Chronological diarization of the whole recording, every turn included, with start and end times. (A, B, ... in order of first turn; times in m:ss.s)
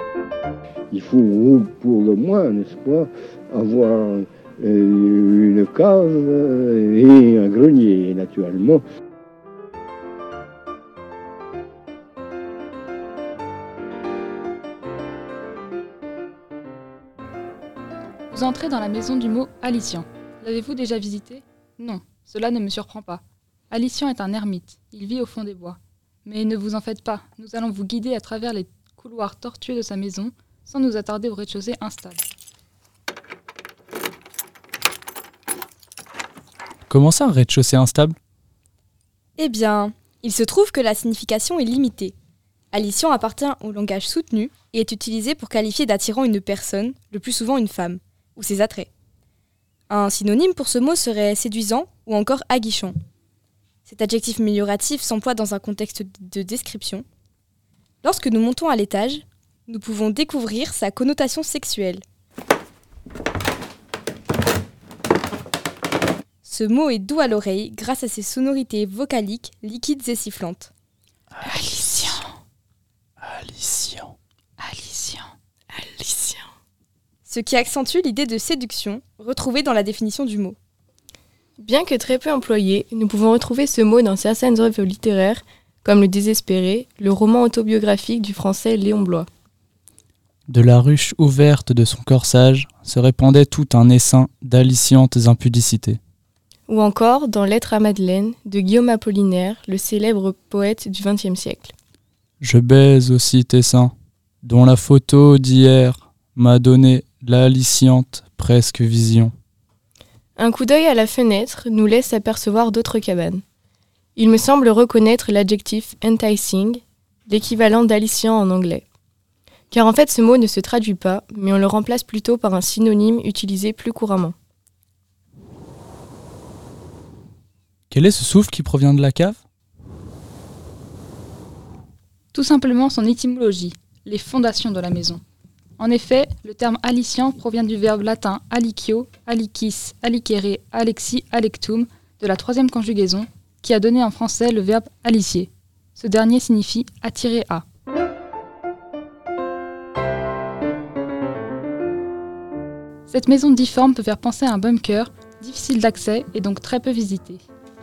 0:00.9-0:08.8 A
0:18.3-0:32.3 B
0:36.9-0:38.2 C
0:39.4-0:42.2 D
0:42.7-0:48.9 D
0:49.9-0:53.0 D
0:53.9-0:57.0 D
0:58.0-1:02.0 D
1:06.4-1:10.7 D
1:11.4-1:12.2 C
1:11.5-1:12.3 B
1:13.2-1:14.1 C
1:14.6-1:15.3 B
1:15.7-1:16.4 E
1:17.2-1:20.6 D
1:21.6-1:29.3 E
1:30.5-1:36.0 C
1:36.7-1:41.7 E
1:42.4-1:49.3 C
1:50.4-1:53.4 E
1:54.2-1:58.8 E
1:59.7-2:04.3 E
2:07.9-2:09.4 C
2:12.3-2:15.2 B
2:15.8-2:27.7 B
2:33.1-2:37.4 B